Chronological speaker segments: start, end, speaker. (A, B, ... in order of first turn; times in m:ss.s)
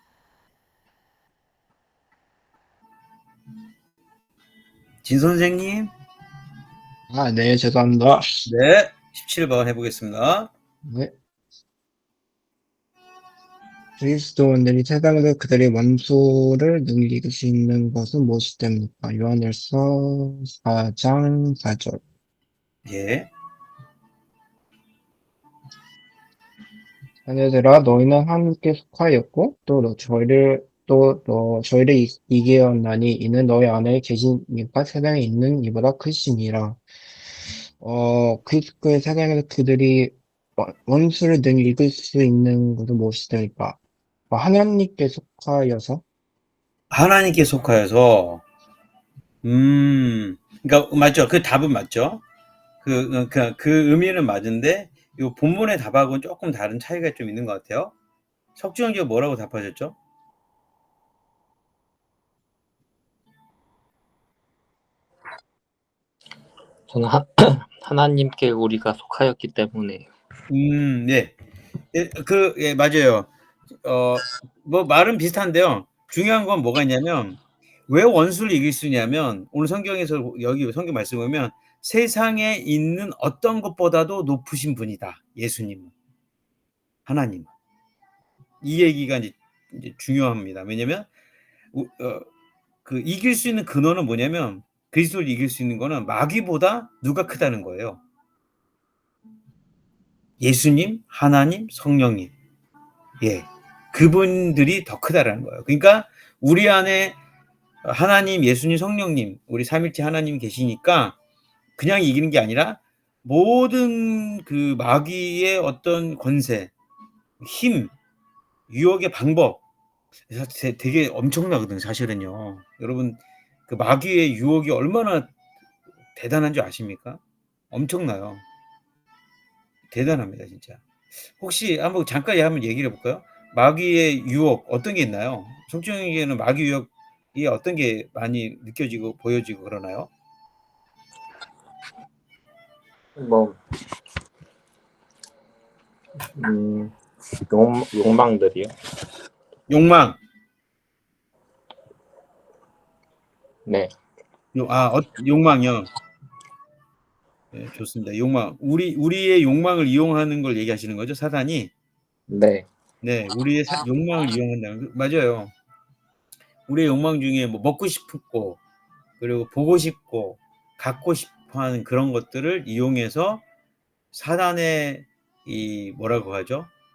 0:05.0-0:05.9 A
0:07.1-0:08.4 B
0:08.4-0:10.5 A
0:10.8-0:11.1 B
0:14.0-0:22.0 B
0:22.8-0:23.3 A
0:27.2-0:36.8 B
0:37.8-0:43.8 B
0:44.3-0:46.0 B
0:46.9-0:48.4 A
0:49.4-0:52.2 A
0:52.8-0:57.9 A
0:58.6-1:00.0 A
1:06.9-1:10.1 C
1:10.5-1:11.3 A
1:11.9-1:13.3 A
1:13.8-1:25.9 A
1:27.0-1:27.5 A
1:28.6-1:31.1 A
1:31.7-1:32.3 A
1:32.8-1:38.0 A
1:40.4-1:42.3 A
1:43.2-1:47.2 A
1:47.8-1:51.1 A
1:51.8-1:56.7 A
1:57.4-1:57.9 A
1:58.7-1:59.6 A
2:00.3-2:05.3 A
2:06.1-2:07.2 A
2:07.7-2:08.4 A
2:09.9-2:10.8 A
2:11.4-2:20.1 A
2:23.2-2:23.6 C
2:26.4-2:28.7 C
2:29.7-2:30.2 A
2:33.6-2:33.9 C
2:34.5-2:35.9 A
2:37.5-2:41.7 A
2:42.3-2:42.7 C
2:43.0-2:45.5 A
2:46.7-2:48.6 A
2:49.2-2:53.4 A
2:54.1-2:56.7 A